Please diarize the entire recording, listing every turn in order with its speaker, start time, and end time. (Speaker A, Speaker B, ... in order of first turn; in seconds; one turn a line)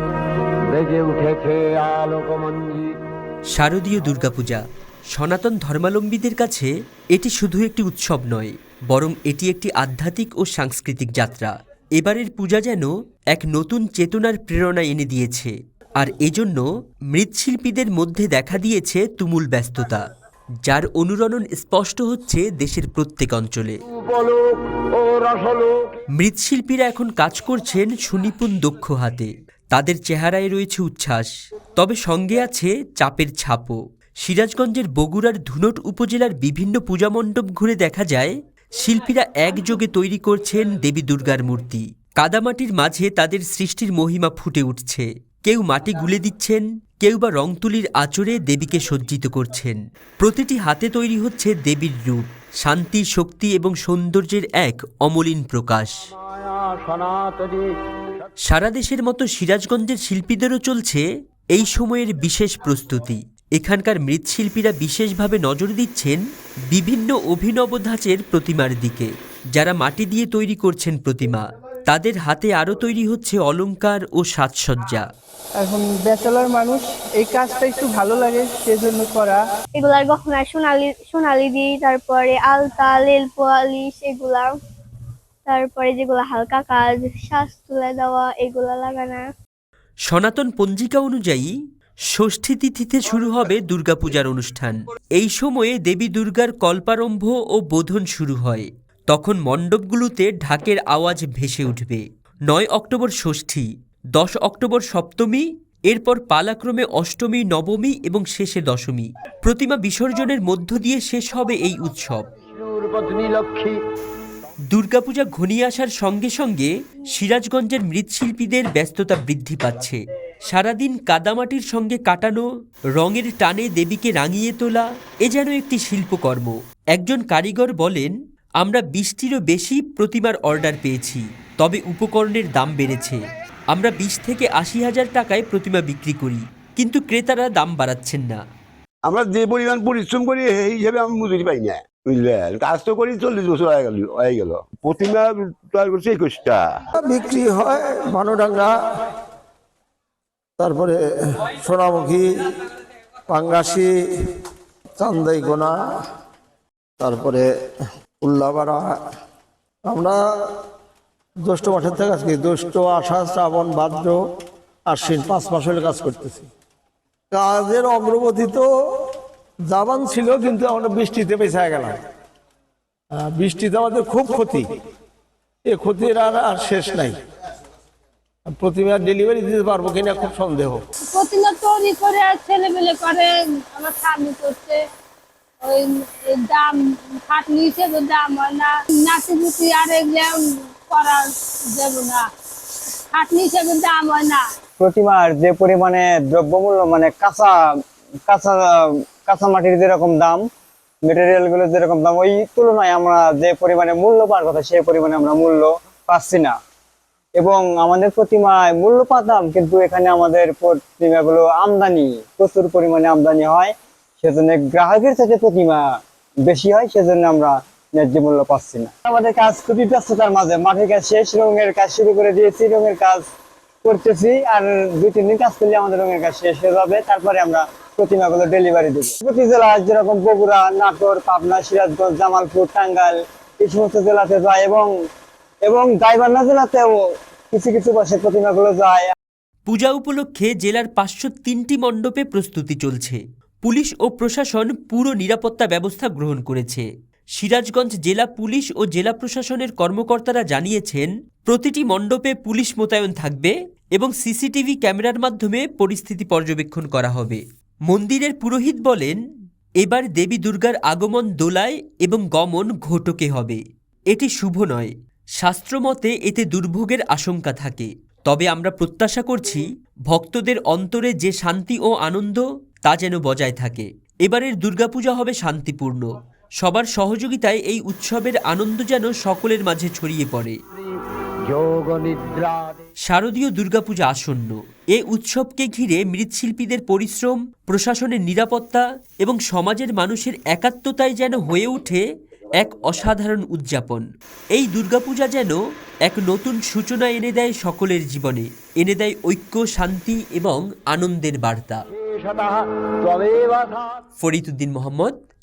Speaker A: 0.6-3.0
Speaker B: 3.5-4.6
Speaker B: 5.1-20.0
Speaker B: 20.6-23.8
Speaker A: 23.9-26.0
Speaker B: 26.1-56.0
Speaker A: 56.1-58.3
Speaker B: 58.5-75.0
Speaker C: 75.6-79.4
Speaker D: 79.8-84.5
Speaker D: 85.5-89.2
Speaker B: 90.1-91.5
Speaker B: 92.1-112.2
Speaker A: 112.5-113.8
Speaker B: 114.7-122.4
Speaker B: 122.9-133.2
Speaker B: 133.7-138.4
Speaker E: 139.0-146.8
Speaker F: 147.0-148.7
Speaker F: 150.6-152.5
Speaker F: 153.3-153.9
Speaker F: 155.0-155.7
Speaker F: 157.0-157.4
Speaker F: 158.2-158.8
Speaker F: 159.9-160.2
Speaker F: 161.4-164.2
Speaker F: 164.8-166.5
Speaker F: 167.3-168.7
Speaker F: 169.7-172.0
Speaker F: 173.2-174.7
Speaker F: 175.7-177.2
Speaker F: 178.5-180.8
Speaker G: 181.1-184.8
Speaker G: 185.6-192.3
Speaker G: 193.1-194.4
Speaker H: 194.8-197.6
Speaker H: 198.3-200.4
Speaker H: 201.0-206.5
Speaker H: 207.4-215.8
Speaker H: 216.4-223.2
Speaker H: 223.8-234.9
Speaker H: 235.6-236.9
Speaker H: 237.5-239.1
Speaker B: 239.7-259.2
Speaker B: 259.8-263.6
Speaker B: 264.1-276.1
Speaker B: 276.6-280.6
Speaker A: 280.7-282.9
Speaker B: 283.0-292.0
Speaker B: 292.6-301.8
Speaker A: 301.9-304.0
Speaker B: 304.2-305.2